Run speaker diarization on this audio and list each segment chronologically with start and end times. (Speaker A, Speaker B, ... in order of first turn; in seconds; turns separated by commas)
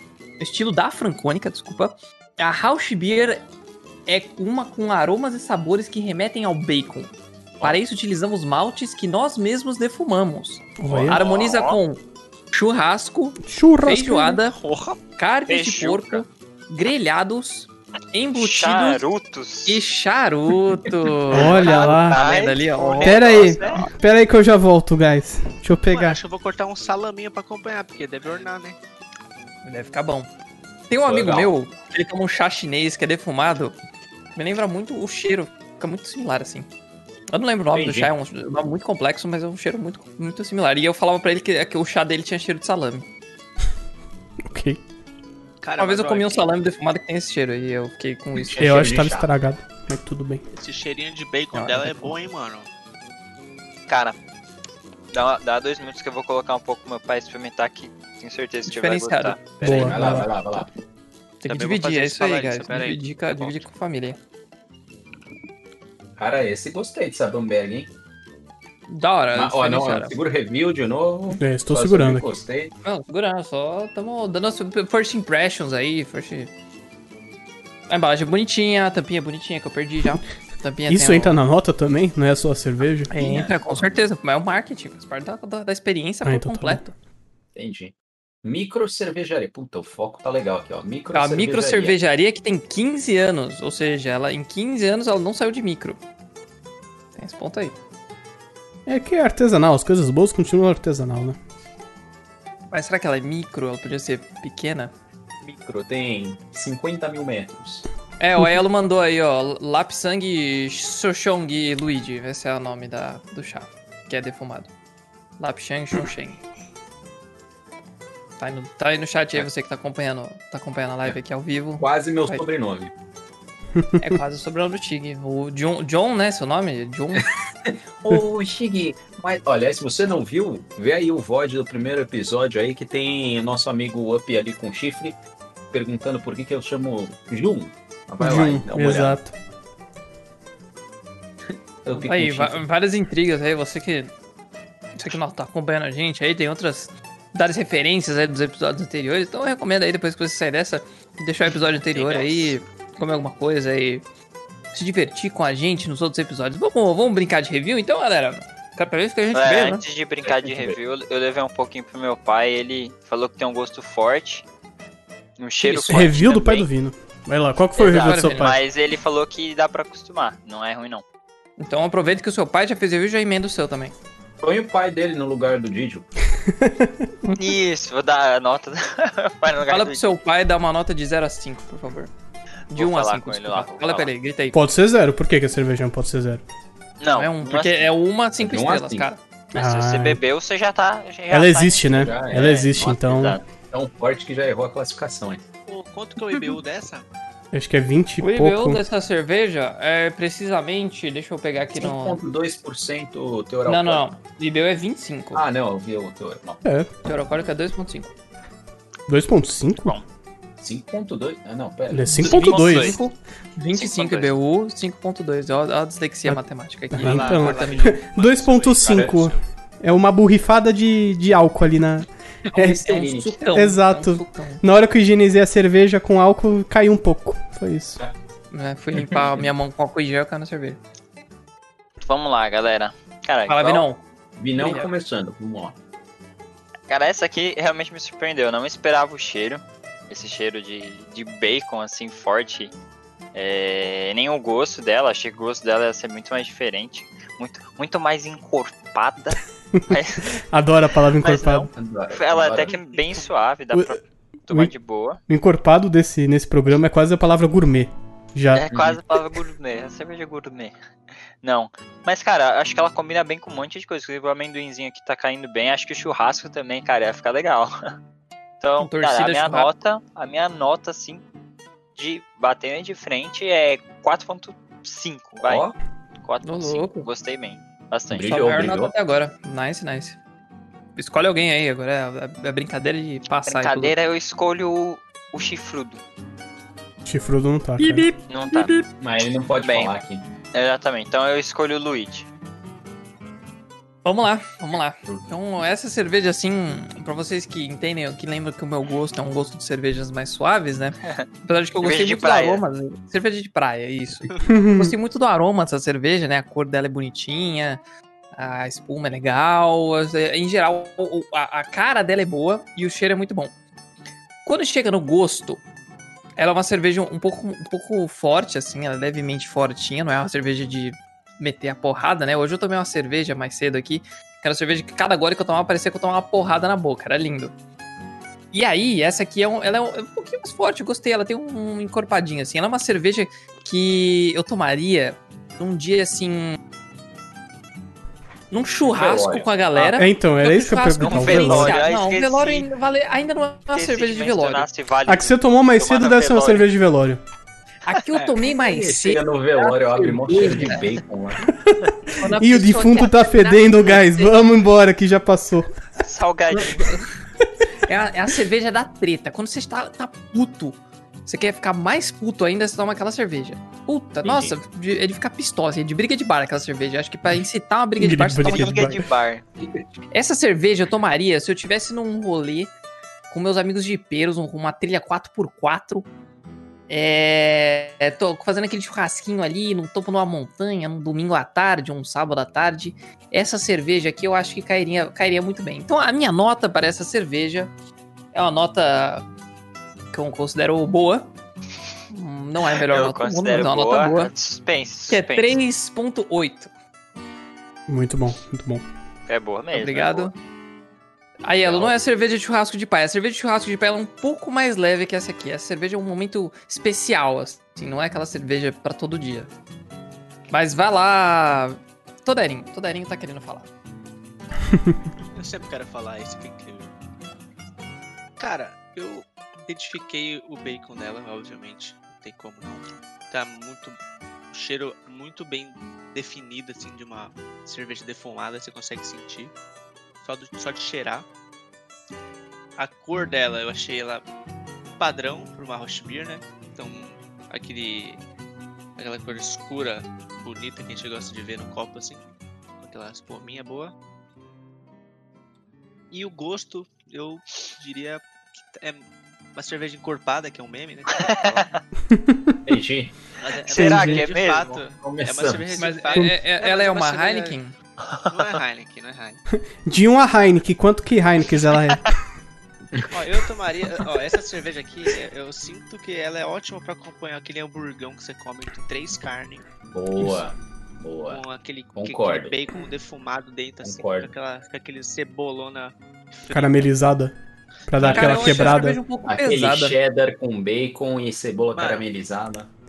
Speaker A: 0.4-3.4, Speaker A: 4.0-14.5, Speaker B: 10.8-11.2, Speaker C: 10.9-11.2, Speaker D: 11.2-11.8, Speaker B: 13.4-14.4, Speaker E: 14.5-15.0, Speaker A: 15.2-19.0, Speaker D: 15.5-16.2, Speaker D: 18.4-19.8, Speaker A: 19.6-23.9, Speaker B: 21.3-22.2, Speaker D: 21.3-23.9, Speaker B: 23.0-26.2, Speaker E: 25.9-28.8, Speaker A: 29.6-30.3, Speaker A: 30.9-33.7, Speaker C: 31.0-31.5, Speaker A: 34.3-36.7, Speaker A: 37.3-43.1, Speaker C: 37.7-38.1, Speaker B: 44.5-44.8, Speaker E: 45.6-46.5, Speaker A: 45.8-48.7, Speaker C: 48.4-49.3, Speaker B: 48.6-50.4, Speaker E: 50.5-52.7, Speaker A: 51.5-52.1, Speaker D: 53.9-54.1, Speaker D: 55.1-59.5, Speaker A: 58.7-60.6, Speaker C: 59.6-60.7, Speaker B: 59.6-60.3, Speaker A: 61.4-64.2, Speaker E: 61.5-63.7, Speaker C: 66.2-67.9, Speaker A: 68.9-70.1, Speaker C: 69.3-72.7, Speaker B: 71.4-72.3, Speaker A: 72.8-76.5, Speaker A: 77.9-81.4, Speaker B: 80.9-83.1, Speaker A: 83.1-86.9, Speaker E: 83.2-83.8, Speaker B: 86.2-86.8, Speaker C: 87.5-92.0, Speaker A: 91.1-96.0, Speaker A: 97.2-97.8, Speaker B: 98.8-101.4, Speaker A: 102.7-104.9, Speaker C: 105.4-107.9, Speaker A: 108.2-114.7, Speaker A: 115.4-116.4, Speaker A: 118.4-122.4, Speaker C: 121.8-122.9, Speaker B: 123.8-124.2, Speaker A: 124.0-127.3, Speaker C: 127.7-135.2, Speaker C: 135.7-139.2, Speaker B: 138.2-139.3, Speaker C: 141.8-142.6, Speaker A: 141.9-144.1, Speaker A: 144.9-154.0, Speaker D: 151.9-152.6, Speaker A: 154.7-159.8, Speaker D: 159.3-164.4, Speaker C: 160.2-160.8, Speaker D: 165.4-166.7, Speaker C: 165.6-166.1, Speaker B: 165.8-168.6, Speaker D: 167.8-171.0, Speaker A: 167.9-168.6, Speaker A: 171.6-173.9, Speaker C: 174.4-176.1, Speaker B: 176.4-177.1, Speaker D: 177.3-180.0, Speaker A: 179.7-182.1, Speaker D: 182.7-184.1, Speaker A: 182.7-184.6, Speaker B: 184.5-186.4, Speaker D: 187.0-187.9, Speaker A: 187.1-189.2, Speaker C: 188.4-189.1, Speaker D: 189.5-193.4, Speaker B: 189.5-190.2, Speaker B: 191.3-193.4, Speaker C: 191.9-195.4, Speaker E: 195.7-197.1, Speaker B: 197.5-198.8, Speaker A: 198.2-202.2, Speaker C: 201.8-204.2, Speaker A: 203.7-205.4, Speaker C: 205.3-206.6, Speaker B: 206.6-206.9, Speaker A: 207.0-208.1, Speaker B: 209.1-209.9, Speaker C: 210.6-212.3, Speaker B: 211.9-213.0, Speaker A: 212.1-217.9, Speaker D: 212.2-213.0, Speaker D: 213.7-214.4, Speaker B: 216.9-222.1, Speaker D: 217.0-219.2, Speaker E: 217.1-219.3, Speaker C: 218.9-219.2, Speaker C: 222.5-223.3, Speaker A: 222.5-224.6, Speaker B: 223.4-228.0, Speaker A: 228.5-230.8, Speaker C: 229.0-229.3, Speaker D: 232.0-233.8, Speaker A: 233.5-234.0, Speaker C: 234.4-235.8, Speaker A: 234.6-234.9, Speaker D: 236.9-242.7, Speaker D: 243.3-250.3, Speaker B: 249.7-251.7, Speaker D: 251.1-255.2, Speaker C: 251.7-252.7, Speaker E: 252.7-253.3, Speaker B: 255.3-258.6, Speaker D: 258.5-260.8, Speaker C: 258.7-259.0, Speaker D: 261.4-267.8, Speaker D: 268.6-271.2, Speaker A: 268.8-269.7, Speaker D: 271.9-275.6, Speaker C: 275.4-275.8, Speaker D: 276.2-278.4, Speaker A: 276.4-277.1, Speaker C: 278.1-278.9, Speaker A: 278.2-280.2, Speaker A: 280.9-283.9, Speaker D: 283.4-286.0, Speaker B: 287.0-288.1, Speaker A: 287.8-288.8, Speaker D: 288.3-288.7, Speaker C: 289.0-290.2, Speaker D: 289.5-289.9, Speaker D: 290.5-292.3, Speaker A: 294.0-307.8, Speaker C: 295.0-295.3, Speaker D: 301.8-302.6, Speaker B: 304.4-304.9, Speaker A: 308.3-313.5, Speaker A: 314.4-315.6, Speaker A: 316.4-327.5, Speaker A: 328.5-336.6, Speaker A: 338.5-344.7, Speaker C: 338.8-339.5, Speaker B: 339.9-341.8, Speaker D: 341.0-342.7, Speaker D: 343.7-346.6, Speaker B: 345.1-347.2, Speaker A: 347.8-350.9, Speaker C: 348.4-351.5, Speaker B: 352.1-355.8, Speaker A: 352.2-354.3, Speaker D: 356.0-357.0, Speaker A: 356.5-357.0, Speaker A: 357.8-369.0, Speaker C: 364.2-364.5, Speaker B: 368.0-369.1, Speaker D: 368.4-369.4, Speaker A: 370.1-372.7, Speaker A: 373.3-376.1, Speaker A: 376.9-387.7, Speaker A: 388.3-389.2, Speaker A: 390.1-391.3, Speaker A: 392.1-394.3, Speaker D: 392.7-395.6, Speaker A: 395.1-396.7, Speaker B: 397.9-398.8, Speaker D: 399.3-400.3, Speaker A: 399.7-400.3, Speaker A: 401.4-409.5, Speaker C: 401.6-401.9, Speaker A: 410.5-413.7, Speaker E: 415.3-416.9, Speaker E: 418.4-424.0, Speaker E: 424.5-429.5, Speaker E: 430.2-431.3, Speaker E: 432.8-434.2, Speaker E: 435.0-438.2, Speaker E: 439.0-442.2, Speaker E: 442.8-443.9, Speaker E: 446.1-451.8, Speaker D: 451.3-451.6, Speaker B: 452.1-452.6, Speaker C: 452.6-453.1, Speaker E: 453.4-457.6, Speaker D: 453.5-454.8, Speaker B: 453.7-454.2, Speaker C: 455.0-455.7, Speaker A: 455.8-457.7, Speaker D: 458.0-458.6, Speaker E: 458.3-459.4, Speaker B: 459.8-462.1, Speaker C: 462.9-463.2, Speaker E: 463.1-469.6, Speaker C: 469.9-471.4, Speaker E: 471.3-477.1, Speaker C: 471.9-472.6, Speaker C: 473.8-474.3, Speaker B: 476.5-477.3, Speaker B: 477.9-479.0, Speaker E: 478.0-478.7, Speaker A: 478.0-480.0, Speaker C: 478.0-478.4, Speaker C: 479.2-482.7, Speaker E: 481.7-482.1